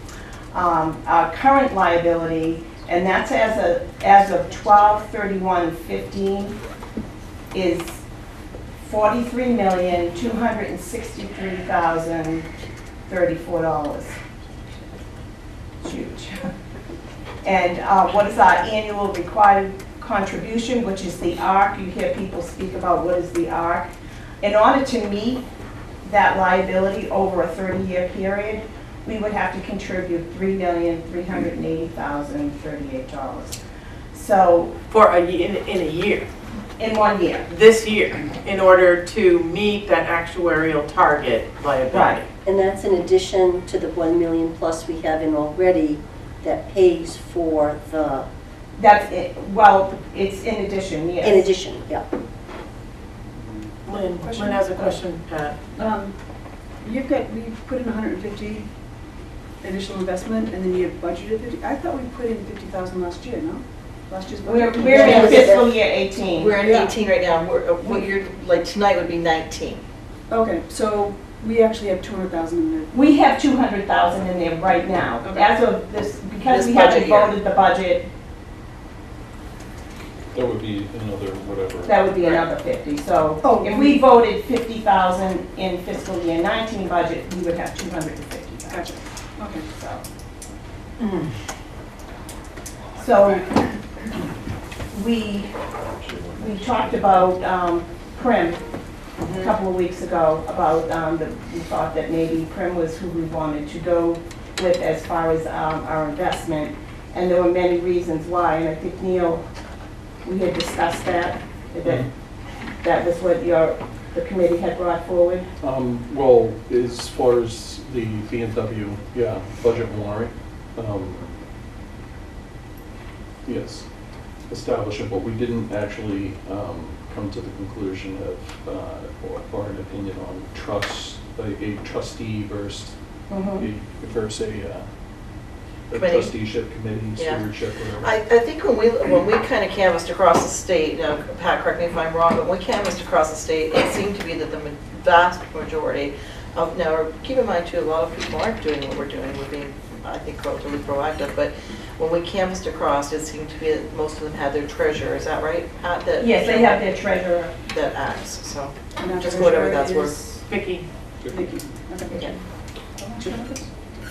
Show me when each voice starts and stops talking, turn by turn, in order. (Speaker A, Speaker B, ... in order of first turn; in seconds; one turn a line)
Speaker A: 0.5-6.6
Speaker A: 7.5-8.0
Speaker A: 8.8-12.5
Speaker A: 13.1-14.2
Speaker A: 15.8-16.4
Speaker A: 17.4-23.9
Speaker A: 24.4-25.4
Speaker A: 26.0-33.6
Speaker A: 34.1-34.8
Speaker B: 34.9-36.3
Speaker A: 36.8-37.5
Speaker B: 37.5-42.3
Speaker A: 41.9-42.2
Speaker C: 42.5-48.3
Speaker A: 48.8-51.5
Speaker C: 51.2-52.0
Speaker B: 53.9-55.6
Speaker D: 53.9-54.7
Speaker D: 55.8-56.1
Speaker D: 56.8-58.7
Speaker D: 59.6-65.5
Speaker A: 64.4-66.6
Speaker E: 64.8-65.2
Speaker C: 64.9-65.7
Speaker E: 66.4-69.8
Speaker D: 70.3-72.9
Speaker A: 72.9-78.1
Speaker E: 76.5-77.4
Speaker F: 80.3-82.0
Speaker A: 81.8-89.0
Speaker D: 83.4-84.0
Speaker D: 88.7-89.7
Speaker A: 89.7-90.0
Speaker A: 93.0-93.6
Speaker A: 94.9-95.6
Speaker A: 96.3-98.6
Speaker B: 99.2-99.5
Speaker A: 99.3-109.4
Speaker A: 110.2-112.1
Speaker A: 112.8-115.5
Speaker F: 115.6-121.4
Speaker F: 123.5-123.8
Speaker F: 124.5-132.9
Speaker A: 133.3-133.7
Speaker F: 133.6-134.9
Speaker F: 135.9-138.1
Speaker E: 135.9-136.4
Speaker E: 137.2-137.5
Speaker E: 138.0-157.0
Speaker A: 156.2-157.6
Speaker E: 157.7-160.3
Speaker D: 159.0-160.3
Speaker B: 160.5-160.8
Speaker D: 161.3-162.4
Speaker D: 162.9-163.7